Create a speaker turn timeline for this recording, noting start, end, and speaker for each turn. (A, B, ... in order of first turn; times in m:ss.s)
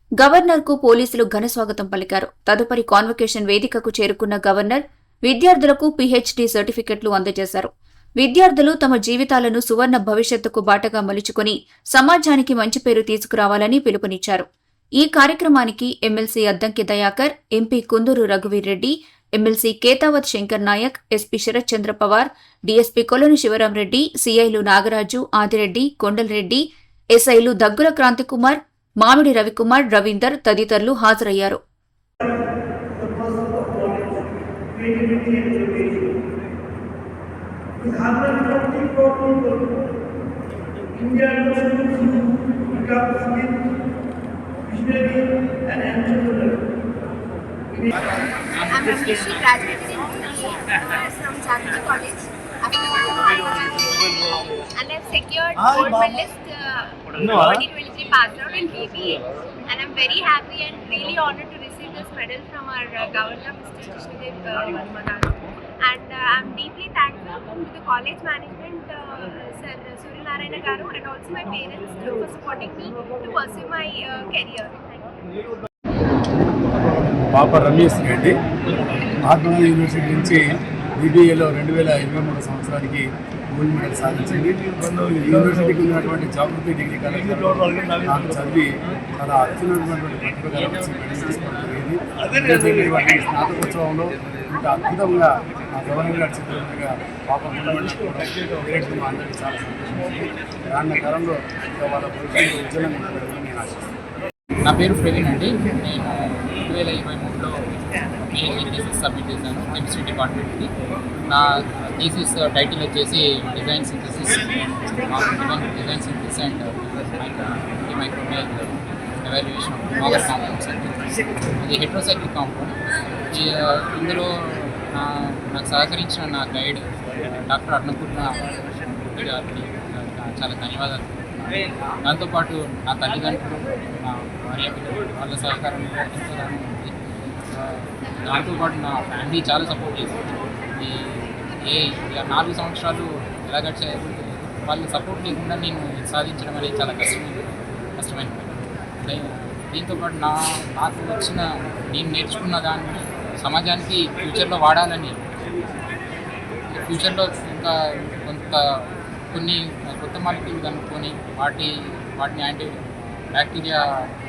0:00.2-0:14.5 A
0:15.0-0:26.6 A
0:27.1-0:31.6 A
0:33.0-0:34.1 B
0:34.7-0:36.1 C
0:35.5-0:35.9 B
0:37.8-0:39.7 B
0:41.0-0:42.1 B
0:42.0-0:43.3 C
0:42.7-0:43.6 B
0:44.7-0:46.6 C
0:46.2-0:46.5 B
0:48.7-1:15.2 C
1:17.0-1:18.4 D
1:19.2-1:43.9 D
1:44.6-1:50.7 E
1:51.2-2:02.8 E
2:03.3-2:06.8 E
2:07.4-2:16.9 E
2:17.5-2:35.2 E
2:36.7-2:44.1 E